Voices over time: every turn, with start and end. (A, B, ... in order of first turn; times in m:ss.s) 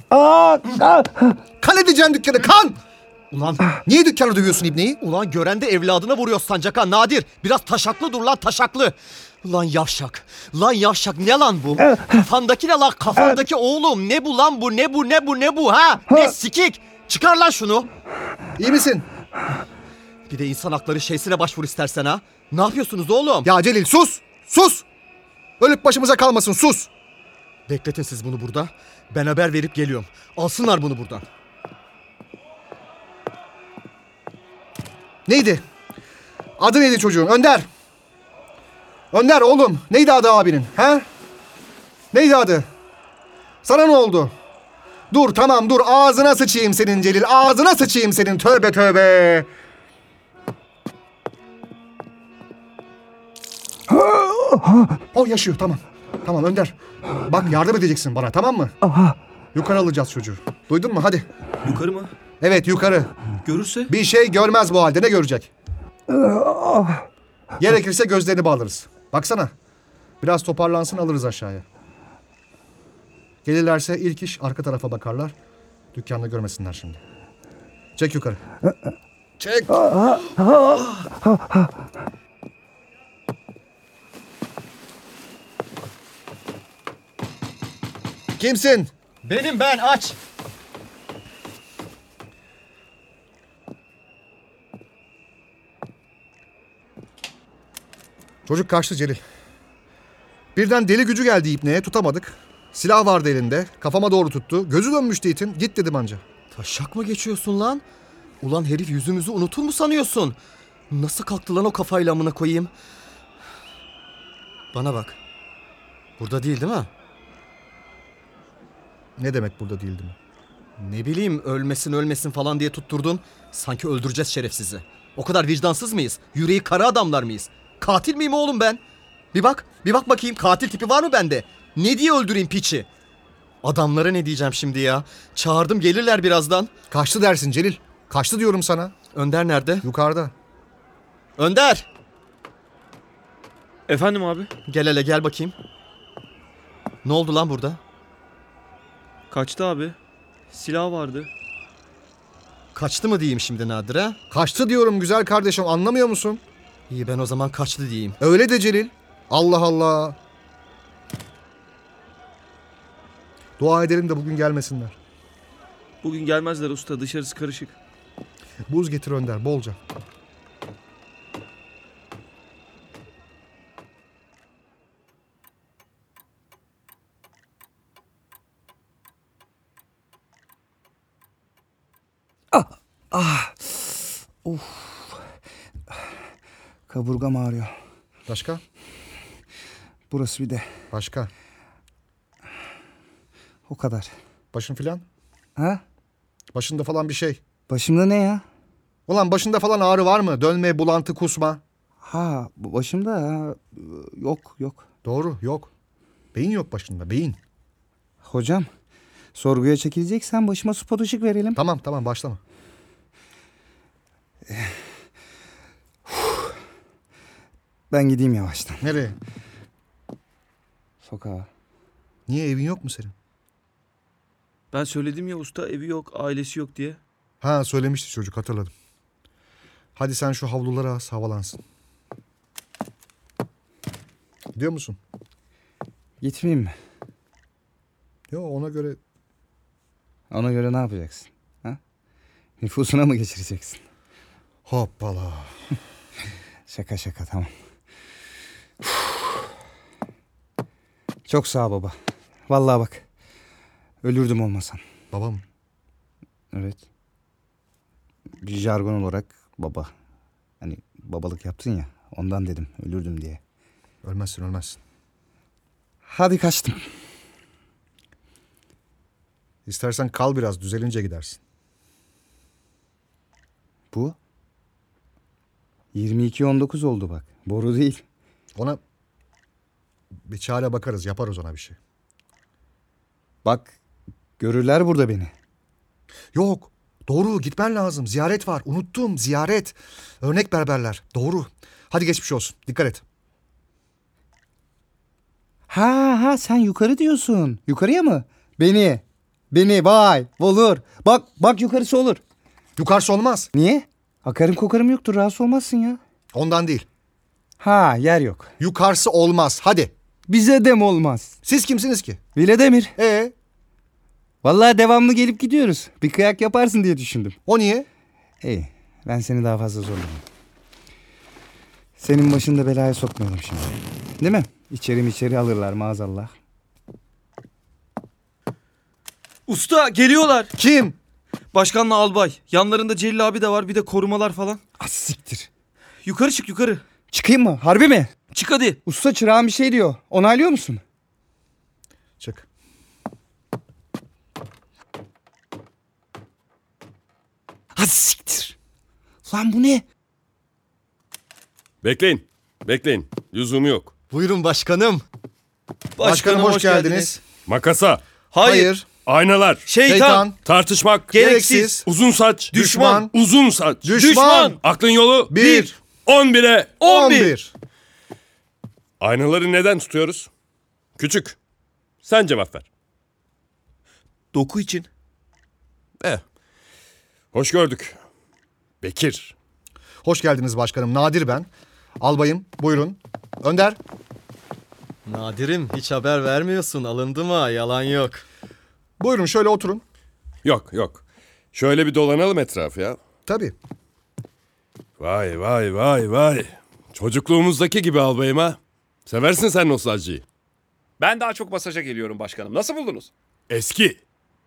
0:00.1-0:01.4 A
0:01.6-0:02.8 B
0:03.3-0:03.7 C
0:03.9-0:05.0 B
0:05.0-0:17.9 C
0:18.6-0:19.1 B
0:20.3-0:23.5 C
0:23.4-0:24.9 B
0:25.6-0:26.9 B
0:27.7-0:31.2 C
0:35.3-0:35.6 B
0:36.6-0:37.7 B
0:39.1-0:41.1 B
0:42.1-0:42.7 B
0:43.6-0:44.3 B
0:45.1-0:49.5 B
0:54.0-0:54.9 A
0:55.1-0:58.8 B
0:59.5-1:01.3 B
1:01.6-1:02.1 D
1:02.4-1:03.1 B
1:03.4-1:03.9 D
1:03.9-1:05.5 B
1:06.1-1:07.0 A
1:07.6-1:09.5 B
1:10.2-1:11.6 B
1:13.4-1:15.3 B
1:15.9-1:17.0 B
1:18.0-1:18.4 B
1:19.4-1:19.9 B
1:19.9-1:20.8 A
1:28.4-1:28.9 B
1:29.2-1:30.2 C
1:38.5-1:39.2 B
1:40.6-1:46.2 B
1:46.5-1:47.8 C
1:48.4-1:50.4 C
1:50.9-1:52.7 C
1:54.7-1:55.2 C
1:56.2-1:56.9 C
1:59.2-2:00.2 B
2:00.8-2:08.8 C
2:09.3-2:12.9 C
2:13.6-2:16.7 C
2:16.9-2:18.9 B
2:19.1-2:19.9 C
2:19.8-2:20.3 B
2:21.4-2:21.9 C
2:23.9-2:24.5 D
2:24.7-2:25.6 C
2:27.0-2:27.8 C
2:29.3-2:30.0 D
2:30.5-2:31.3 D
2:32.7-2:34.2 C
2:34.3-2:36.4 B
2:36.9-2:38.2 C
2:38.2-2:40.2 B
2:43.6-2:45.0 B
2:46.0-2:47.8 D
2:48.7-2:49.8 B
3:02.5-3:05.2 A
3:06.9-3:07.7 A
3:08.3-3:08.6 B
3:10.1-3:10.7 A
3:10.9-3:11.3 B
3:13.7-3:14.1 A
3:14.5-3:15.0 B
3:15.6-3:15.8 A
3:16.5-3:17.4 B
3:17.7-3:18.4 A
3:19.1-3:21.6 B
3:22.0-3:24.9 A
3:25.0-3:25.7 B
3:26.3-3:27.4 B
3:28.2-3:28.7 A
3:29.4-3:31.6 A
3:31.6-3:32.4 B
3:34.5-3:34.7 A
3:36.1-3:36.5 A
3:37.9-3:38.8 A
3:38.8-3:39.2 B
3:41.0-3:41.5 A
3:42.3-3:43.1 B
3:44.7-3:47.0 D
3:47.4-3:48.7 B
3:50.0-3:51.6 B
3:54.6-3:55.0 B
3:56.2-3:56.8 A
3:58.3-3:59.0 B
4:00.3-4:01.8 A
4:02.6-4:03.8 A
4:04.6-4:05.6 B
4:06.7-4:07.5 A
4:08.8-4:09.1 A
4:11.3-4:12.0 A
4:12.5-4:13.0 A
4:14.0-4:14.8 A
4:15.1-4:15.4 B
4:16.5-4:16.8 A
4:18.4-4:19.9 A
4:20.6-4:23.4 A
4:24.0-4:24.8 B
4:26.1-4:26.8 A
4:29.6-4:31.4 B
4:35.9-4:38.0 A
4:40.3-4:41.8 B
4:43.4-4:43.8 A
4:44.4-4:45.3 A
4:46.3-4:53.0 B
4:55.7-5:02.2 A
5:02.8-5:03.5 B
5:03.5-5:06.0 A
5:06.3-5:06.9 B
5:07.6-5:08.5 A
5:08.6-5:09.9 B
5:10.3-5:11.4 A
5:11.4-5:12.2 B
5:12.4-5:12.9 A
5:13.0-5:13.3 B
5:14.4-5:17.4 A
5:17.5-5:17.9 B
5:18.4-5:20.2 A
5:22.0-5:26.3 A
5:29.5-5:30.5 D
5:30.6-5:31.0 B
5:31.5-5:34.6 D
5:34.8-5:35.5 A
5:36.0-5:36.8 D
5:37.1-5:38.1 A
5:38.3-5:38.8 D
5:38.9-5:40.8 A
5:42.2-5:42.5 B
5:47.8-5:48.6 A
5:49.3-5:49.8 A
5:51.8-5:53.9 E
5:54.1-5:55.0 C
5:56.0-5:57.2 D
5:56.0-5:57.2 B
5:57.5-5:58.0 E
5:58.3-5:58.7 D
5:58.4-5:58.9 B
5:59.1-5:59.6 E
5:59.6-6:00.3 D
5:59.9-6:00.4 B
6:00.4-6:01.2 E
6:01.1-6:01.8 D
6:01.1-6:01.9 B
6:01.8-6:04.0 E
6:02.5-6:03.1 B
6:03.8-6:04.6 B
6:03.9-6:04.6 D
6:04.6-6:06.8 E
6:05.3-6:05.8 B
6:06.8-6:07.4 D
6:06.8-6:07.5 B
6:09.0-6:10.3 E
6:11.0-6:11.4 E
6:12.0-6:12.7 E
6:14.3-6:14.9 D
6:17.3-6:18.0 E
6:18.8-6:19.3 E
6:20.0-6:21.5 B
6:22.0-6:23.8 B
6:25.1-6:28.2 C
6:29.0-6:29.8 B
6:30.4-6:33.0 E
6:33.3-6:33.6 B
6:35.0-6:40.2 E
6:41.0-6:43.1 F
6:43.5-6:44.0 E